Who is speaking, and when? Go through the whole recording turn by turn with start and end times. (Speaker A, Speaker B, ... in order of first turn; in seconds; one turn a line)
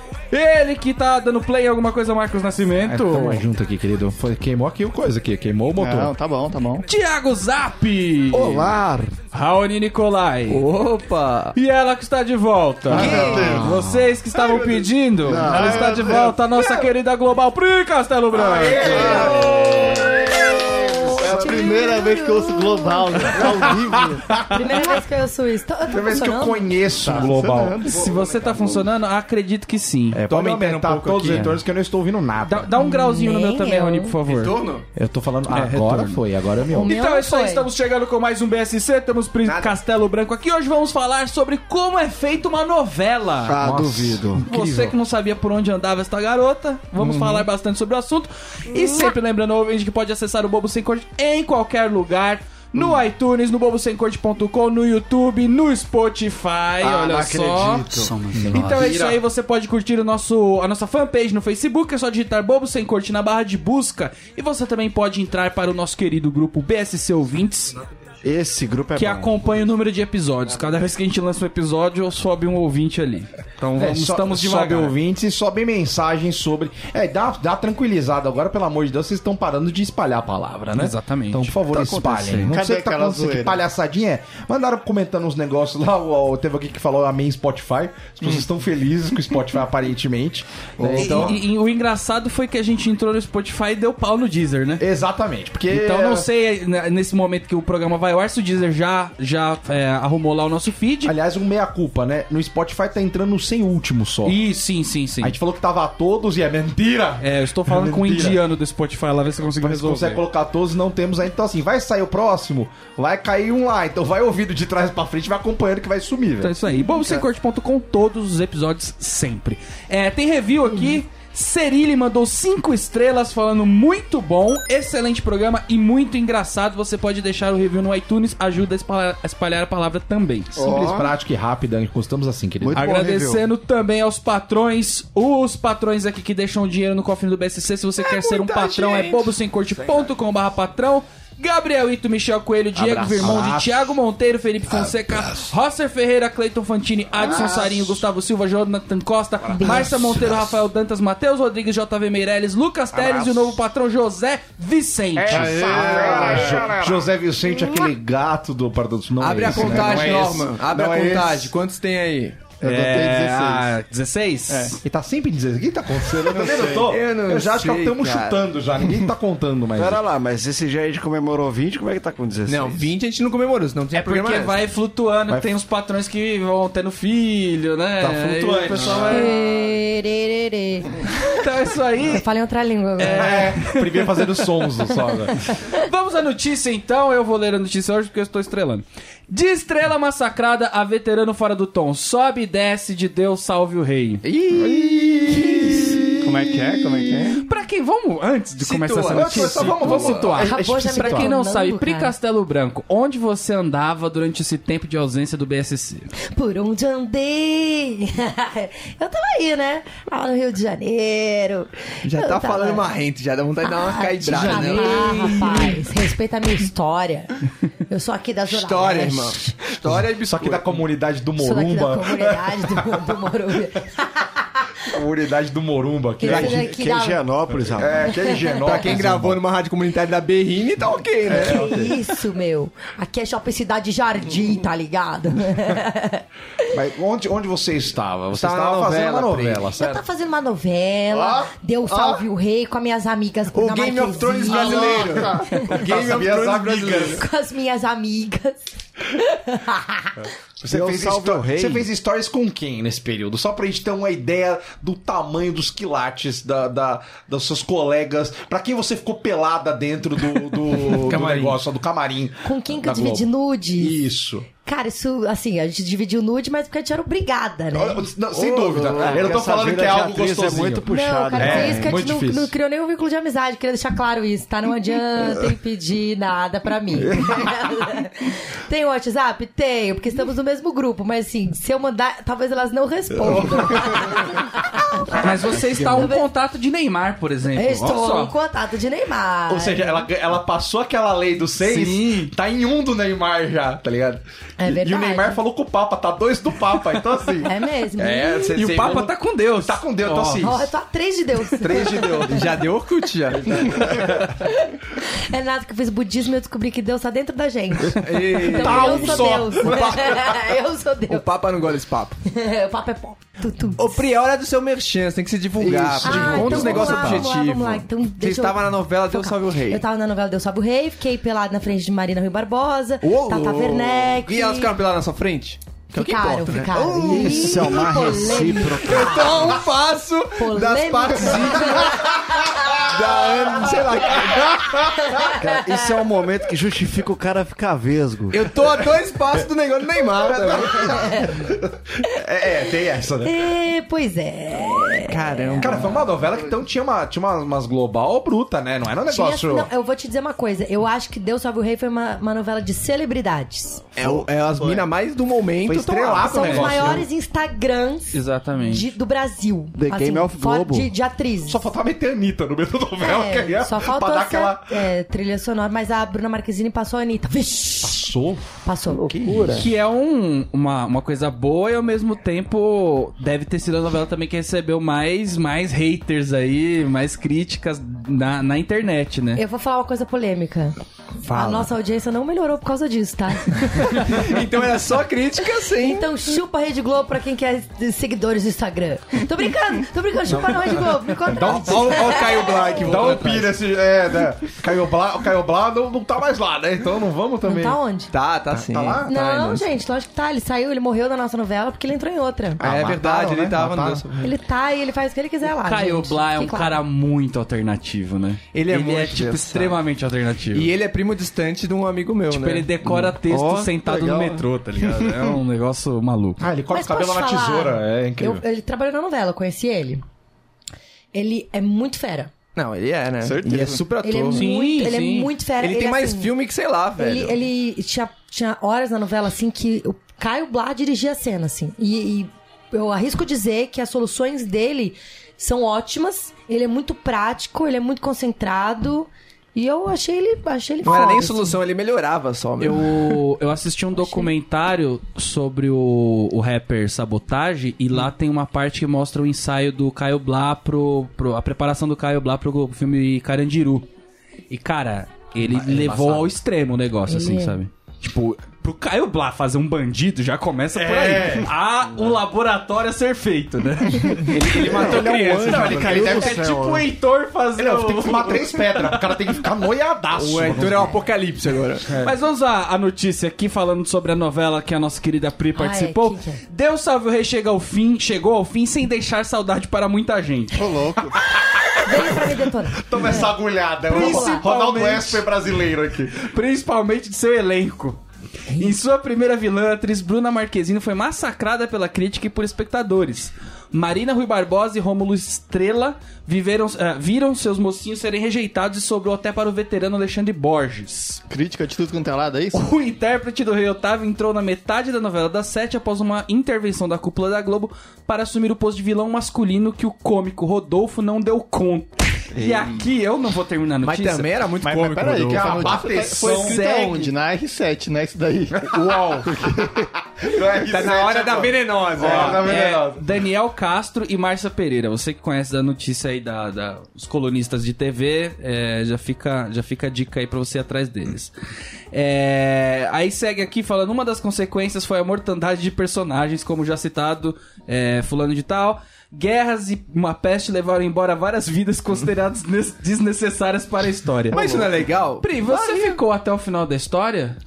Speaker A: 0.3-3.4
Speaker B: 2.8-6.1
Speaker C: 5.8-6.9
Speaker A: 6.9-8.7
Speaker D: 8.3-9.2
Speaker A: 9.3-10.6
Speaker E: 10.5-11.5
Speaker A: 11.5-19.4
Speaker C: 12.9-13.7
Speaker E: 12.9-13.5
Speaker D: 13.0-14.1
Speaker C: 15.2-16.4
Speaker D: 15.3-15.9
Speaker B: 18.3-20.4
Speaker F: 18.8-23.5
Speaker C: 18.8-19.4
Speaker C: 21.2-24.3
Speaker B: 21.2-21.7
Speaker B: 23.4-24.9
Speaker F: 24.5-26.7
Speaker B: 25.9-27.9
Speaker C: 27.0-28.1
Speaker A: 27.8-30.2
Speaker B: 30.1-32.8
Speaker E: 30.3-31.6
Speaker A: 32.5-34.6
Speaker F: 32.8-34.1
Speaker E: 34.2-34.8
Speaker B: 35.0-36.9
Speaker A: 35.5-36.2
Speaker A: 36.7-43.6
Speaker F: 36.7-37.7
Speaker E: 39.5-39.7
Speaker D: 43.5-44.4
Speaker B: 43.6-45.0
Speaker A: 44.4-67.8
Speaker E: 47.0-47.5
Speaker D: 56.8-58.7
Speaker B: 58.3-59.2
Speaker D: 68.2-69.4
Speaker A: 69.0-75.0
Speaker B: 73.8-91.4
Speaker A: 80.7-81.5
Speaker D: 81.7-82.4
Speaker A: 82.2-82.5
Speaker C: 82.4-83.6
Speaker E: 90.8-91.4
Speaker A: 90.9-94.8
Speaker B: 94.8-96.3
Speaker A: 95.7-101.2
Speaker B: 101.0-104.4
Speaker A: 104.3-105.4
Speaker B: 105.2-108.4
Speaker A: 107.2-110.2
Speaker B: 109.6-116.5
Speaker A: 116.4-130.6
Speaker D: 130.6-131.1
Speaker B: 130.6-132.9
Speaker D: 132.6-133.4
Speaker A: 132.7-155.5
Speaker E: 138.0-140.1
Speaker B: 142.7-143.9
Speaker B: 144.7-145.5
Speaker B: 147.2-147.9
Speaker B: 149.5-150.5
Speaker F: 149.6-149.9
Speaker B: 152.9-153.6
Speaker B: 155.2-161.5
Speaker C: 155.3-156.7
Speaker D: 155.4-157.0
Speaker E: 159.2-162.4
Speaker C: 159.5-159.9
Speaker C: 162.6-163.7
Speaker A: 162.6-164.8
Speaker C: 164.5-164.8
Speaker B: 164.8-170.0
Speaker C: 166.1-166.9
Speaker E: 166.2-168.4
Speaker D: 169.8-172.9
Speaker E: 172.5-174.6
Speaker A: 173.9-179.3
Speaker B: 175.3-175.5
Speaker B: 178.0-179.3
Speaker F: 179.1-181.1
Speaker A: 181.2-182.2
Speaker F: 182.0-183.5
Speaker A: 183.0-184.9
Speaker B: 183.0-185.4
Speaker A: 185.7-194.2
Speaker E: 194.2-197.4
Speaker B: 194.5-196.6
Speaker C: 196.4-197.3
Speaker A: 197.0-206.1
Speaker E: 198.6-200.3
Speaker B: 199.1-201.3
Speaker F: 200.4-202.1
Speaker F: 206.3-212.9
Speaker E: 212.0-215.7
Speaker F: 213.6-219.6
Speaker A: 214.2-215.7
Speaker E: 218.5-220.8
Speaker B: 219.9-223.2
Speaker F: 221.4-224.4
Speaker B: 224.8-226.7
Speaker F: 226.2-227.2
Speaker D: 226.2-228.2
Speaker B: 227.6-229.4
Speaker F: 228.0-228.8
Speaker E: 228.6-231.9
Speaker F: 231.3-236.2
Speaker D: 231.3-231.9
Speaker B: 236.7-240.0
Speaker E: 238.3-240.0
Speaker F: 239.8-245.8
Speaker E: 243.5-247.2
Speaker B: 244.4-247.3
Speaker F: 247.0-250.3
Speaker B: 250.6-264.5
Speaker D: 250.7-251.8
Speaker E: 261.0-261.6
Speaker F: 262.4-264.0
Speaker F: 264.6-268.1
Speaker B: 267.7-272.5
Speaker D: 268.6-272.0
Speaker E: 268.6-269.3
Speaker F: 270.9-284.4
Speaker A: 285.2-288.3
Speaker F: 285.2-286.3
Speaker F: 287.5-290.1
Speaker B: 289.5-300.7
Speaker A: 291.6-292.3
Speaker F: 294.6-295.4
Speaker F: 297.4-298.6
Speaker A: 298.5-300.4
Speaker F: 300.4-302.4
Speaker B: 301.6-302.5
Speaker E: 302.3-303.9
Speaker B: 303.8-304.1
Speaker F: 304.4-311.2
Speaker E: 307.9-310.4
Speaker B: 308.5-309.6
Speaker E: 311.1-312.2
Speaker F: 312.2-313.9
Speaker E: 313.8-319.8
Speaker B: 315.6-317.2
Speaker D: 315.6-315.9
Speaker F: 316.0-324.7
Speaker E: 323.0-332.2
Speaker F: 325.9-329.7
Speaker D: 327.1-329.4
Speaker F: 330.4-332.9
Speaker E: 332.7-334.8
Speaker B: 333.8-335.2
Speaker F: 335.0-335.6
Speaker D: 335.3-338.6
Speaker E: 338.3-340.9
Speaker B: 340.2-343.4
Speaker F: 340.8-341.4
Speaker F: 343.2-345.8
Speaker E: 345.1-346.0
Speaker B: 345.6-349.7
Speaker F: 349.1-353.8
Speaker E: 354.0-357.0
Speaker C: 354.6-354.9
Speaker B: 355.6-357.1
Speaker F: 356.2-361.6
Speaker A: 356.4-356.8
Speaker A: 358.1-358.9
Speaker D: 359.8-360.9
Speaker B: 361.5-364.7
Speaker F: 363.0-369.3
Speaker B: 367.8-369.6
Speaker A: 369.5-379.4
Speaker F: 379.4-384.1
Speaker E: 381.3-381.7
Speaker E: 383.8-386.1
Speaker F: 385.8-392.8
Speaker E: 391.3-393.6
Speaker B: 392.8-397.8
Speaker F: 397.5-398.1
Speaker E: 398.1-399.7
Speaker B: 398.5-399.1
Speaker F: 399.1-402.6
Speaker B: 402.6-404.1
Speaker E: 402.6-404.3
Speaker F: 404.2-406.8
Speaker A: 405.6-410.7
Speaker E: 408.5-409.8
Speaker E: 410.5-413.1
Speaker A: 412.3-416.4
Speaker D: 413.2-414.5
Speaker B: 416.4-418.4
Speaker F: 416.7-420.0
Speaker F: 421.1-422.3
Speaker E: 422.6-424.5
Speaker C: 423.2-423.9
Speaker F: 424.0-426.4
Speaker A: 424.3-425.3
Speaker E: 425.6-427.4
Speaker F: 427.0-441.6
Speaker E: 440.8-443.2
Speaker A: 442.6-453.9
Speaker F: 444.0-444.3
Speaker A: 454.5-469.1
Speaker E: 455.5-456.2
Speaker F: 457.1-457.6
Speaker B: 460.7-461.5
Speaker E: 464.2-466.5
Speaker D: 464.7-466.9
Speaker B: 465.5-466.4
Speaker B: 467.6-471.0
Speaker E: 470.1-472.0
Speaker A: 472.0-480.9
Speaker F: 475.6-476.4
Speaker C: 480.5-481.1
Speaker F: 481.7-483.3
Speaker B: 482.8-486.2
Speaker F: 483.9-484.5
Speaker A: 483.9-485.2
Speaker A: 486.2-488.0
Speaker F: 488.5-488.8
Speaker A: 488.6-501.2
Speaker C: 501.3-502.7
Speaker A: 502.5-514.3
Speaker D: 512.4-512.7
Speaker E: 513.8-517.1
Speaker B: 514.6-516.9
Speaker C: 514.9-518.8
Speaker B: 518.5-519.3
Speaker C: 519.2-519.7
Speaker B: 520.2-523.0
Speaker E: 520.7-522.5
Speaker A: 522.0-531.3
Speaker A: 531.9-544.7
Speaker E: 544.3-546.0
Speaker A: 545.2-547.4